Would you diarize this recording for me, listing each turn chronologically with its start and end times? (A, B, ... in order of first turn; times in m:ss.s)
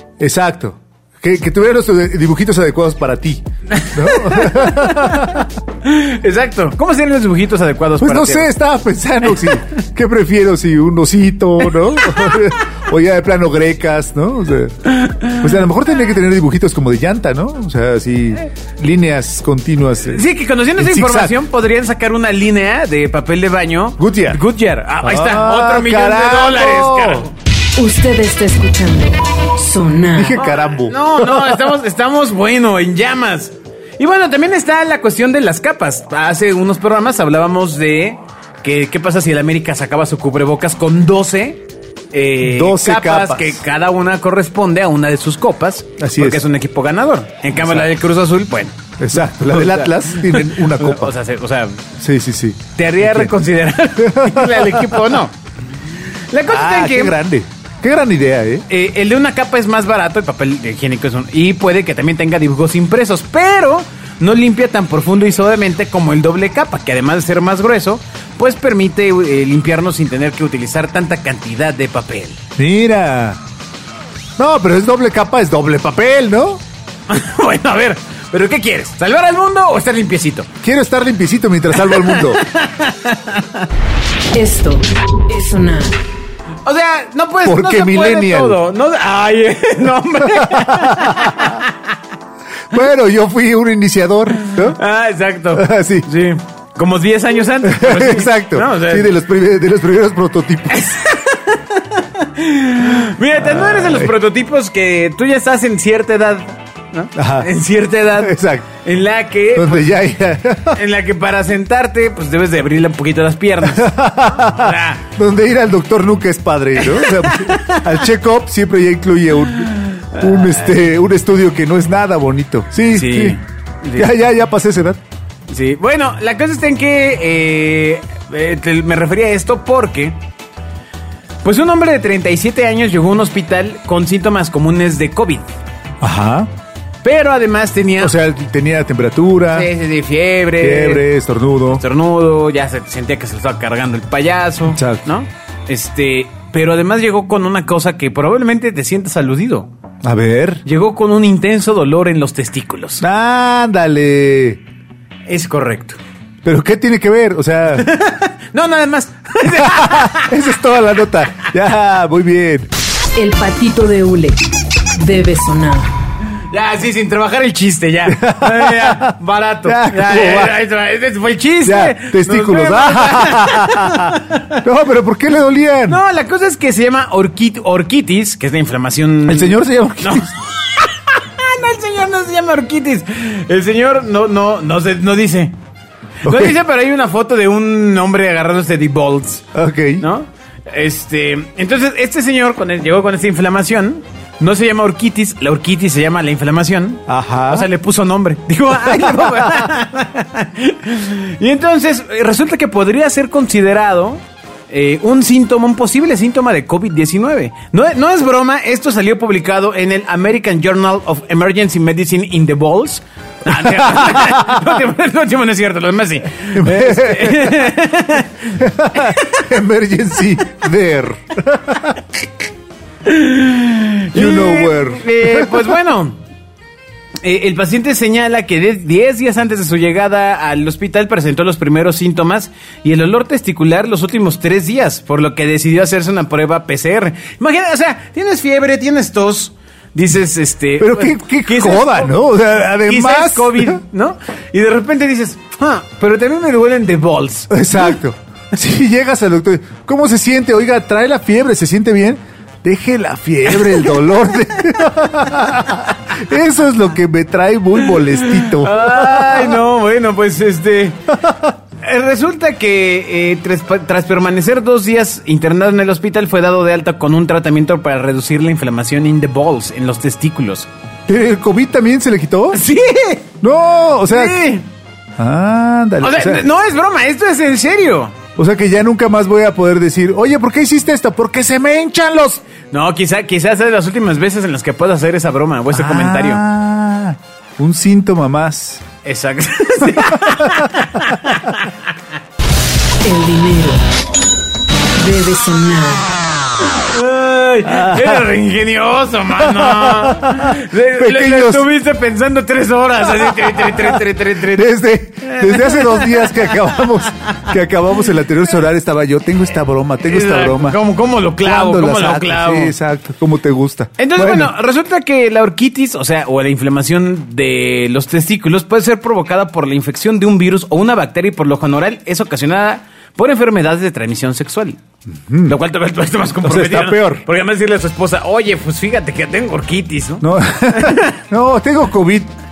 0:00.2-0:05.5 A
0:03.7-0:08.5 B
0:08.0-0:20.2 A
0:14.9-0:15.5 B
0:20.1-0:27.3 B
0:20.8-0:21.4 A
0:24.0-0:24.4 A
0:25.0-0:27.3 A
0:27.8-0:30.4 C
0:30.2-0:31.7 A
0:30.4-0:48.8 B
0:42.4-0:43.6 A
0:46.0-0:46.4 A
0:47.6-0:47.9 A
0:49.0-0:51.2 A
0:49.4-0:51.8 B
0:52.0-0:53.3 A
0:52.8-0:55.3 B
0:54.0-0:55.0 A
0:56.3-0:57.2 B
0:56.5-0:58.7 A
0:58.7-1:12.4 B
1:12.6-1:13.4 A
1:14.4-1:16.6 A
1:17.1-1:20.5 B
1:20.6-1:22.4 A
1:21.8-1:23.7 B
1:24.3-1:26.0 C
1:26.6-1:31.8 B
1:27.4-1:28.6 A
1:30.2-1:31.6 A
1:32.7-1:34.8 A
1:34.5-1:39.1 B
1:35.5-1:36.1 A
1:37.6-1:40.9 A
1:40.7-1:49.9 B
1:43.4-1:44.1 A
1:47.2-1:47.5 A
1:48.2-1:48.7 A
1:49.6-1:50.8 A
1:50.7-1:55.0 B
1:53.6-2:03.4 A
1:56.8-1:57.9 B
1:59.9-2:00.7 B
2:02.9-2:04.1 B
2:04.0-2:05.0 A
2:05.5-2:10.2 B
2:11.4-2:15.5 B
2:16.0-2:16.5 A
2:17.0-2:18.1 B
2:18.0-2:19.7 A
2:19.5-2:21.0 B
2:20.6-2:21.8 A
2:21.7-2:29.7 B
2:24.7-2:25.0 A
2:30.0-2:30.6 A
2:30.7-2:33.0 B
2:33.0-2:34.6 A
2:35.3-2:36.0 B
2:36.4-2:37.9 A
2:37.8-2:40.4 B
2:39.5-2:42.7 A
2:43.2-2:44.4 C
2:45.0-2:45.9 C
2:46.5-2:54.6 B
2:48.1-2:50.6 A
2:51.6-2:56.0 A
2:55.9-3:05.5 B
2:59.3-3:00.3 A
3:06.2-3:09.5 B
3:06.2-3:06.6 A
3:09.5-3:10.0 A
3:10.0-3:39.4 B
3:17.1-3:17.7 A
3:18.8-3:19.7 A
3:33.5-3:34.7 A
3:36.5-3:37.7 A
3:38.6-3:42.0 A
3:43.0-3:46.2 B
3:44.1-3:45.7 A
3:47.2-4:02.2 B
4:00.8-4:03.8 A
4:02.8-4:07.8 B
4:07.5-4:19.6 A
4:13.5-4:13.9 B
4:17.9-4:21.0 B
4:21.1-4:21.5 A
4:21.8-4:30.7 B
4:31.1-4:32.6 A
4:32.5-4:33.3 B
4:33.4-4:34.4 A
4:34.1-4:34.6 B
4:35.2-4:36.5 A
4:36.0-4:38.2 B
4:38.4-4:42.4 A
4:42.7-4:46.4 B
4:45.7-4:48.8 A
4:49.0-4:51.8 B
4:50.0-4:50.6 A
4:53.0-4:53.8 C
4:55.0-4:56.1 C
4:56.9-5:04.7 B
4:57.7-4:58.3 A
4:59.4-5:01.6 A
5:03.7-5:04.0 A
5:04.5-5:10.8 A
5:05.2-5:06.6 B
5:10.1-5:12.8 B
5:11.4-5:14.5 A
5:14.0-5:24.8 B
5:25.3-5:25.6 A
5:25.5-5:31.2 B
5:26.4-5:27.2 A
5:30.2-5:32.3 A